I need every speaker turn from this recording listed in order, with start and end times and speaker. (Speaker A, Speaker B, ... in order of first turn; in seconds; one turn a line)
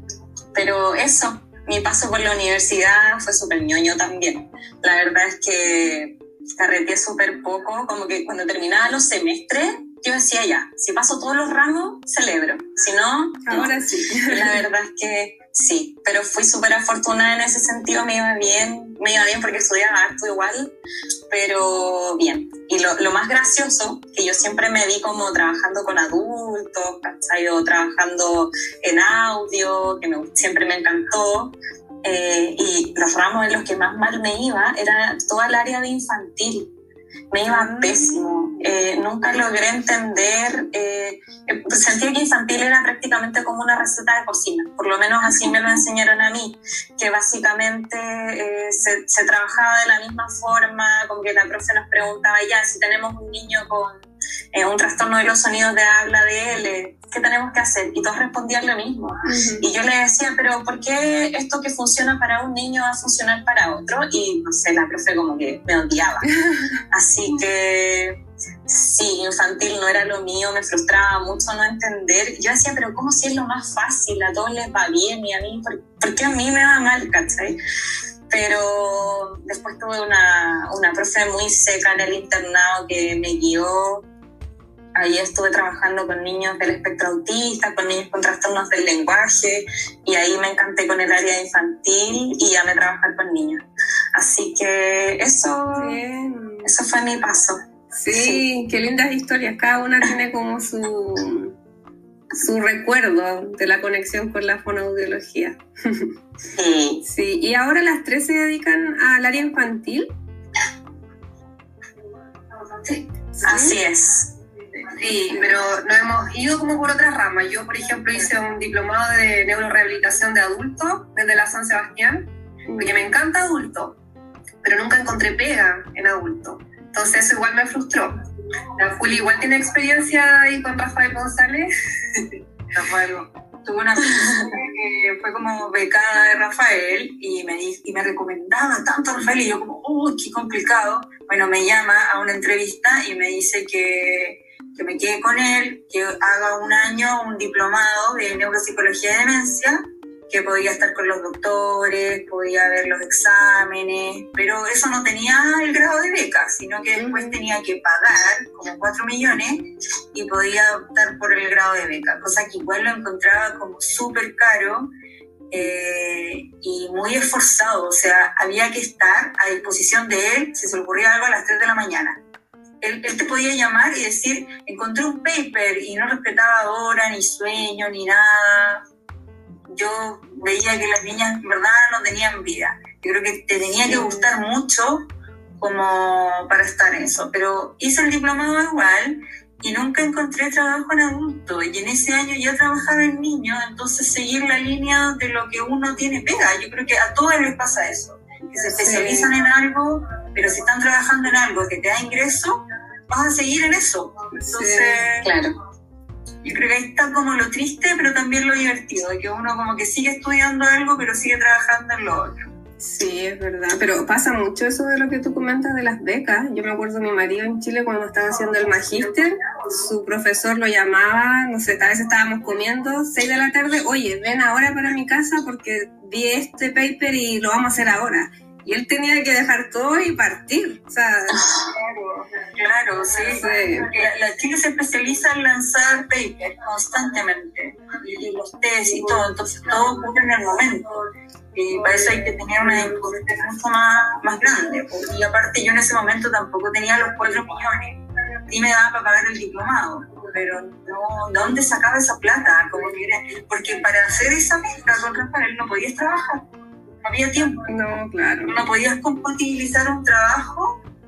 Speaker A: 0.5-20.7
Speaker B: 13.5-14.6
Speaker A: 21.3-36.7
Speaker A: 37.3-66.3
Speaker B: 37.5-38.2
Speaker B: 59.2-59.6
Speaker B: 66.4-66.7
Speaker A: 66.9-77.6
Speaker A: 78.3-84.0
Speaker A: 84.9-93.6
Speaker A: 94.1-96.0
Speaker B: 95.7-96.7
Speaker A: 96.6-97.6
Speaker B: 97.9-101.5
Speaker A: 98.1-98.4
Speaker B: 102.3-106.1
Speaker A: 106.5-107.0
Speaker B: 107.0-110.1
Speaker A: 112.8-114.3
Speaker B: 113.4-113.8
Speaker C: 115.0-124.0
Speaker B: 122.7-123.1
Speaker C: 124.6-128.2
Speaker C: 128.8-132.3
Speaker D: 132.7-164.9
Speaker B: 156.9-157.4
Speaker D: 165.5-172.2
Speaker D: 172.8-178.8
Speaker D: 179.7-185.0
Speaker B: 183.8-184.3
Speaker D: 185.6-205.3
Speaker B: 198.7-199.3
Speaker B: 204.3-205.0
Speaker A: 205.2-205.5
Speaker D: 206.4-212.5
Speaker B: 212.8-231.5
Speaker D: 231.6-241.0
Speaker B: 233.2-233.9
Speaker D: 241.5-256.5
Speaker D: 257.0-257.6
Speaker B: 257.7-258.6
Speaker D: 258.4-260.8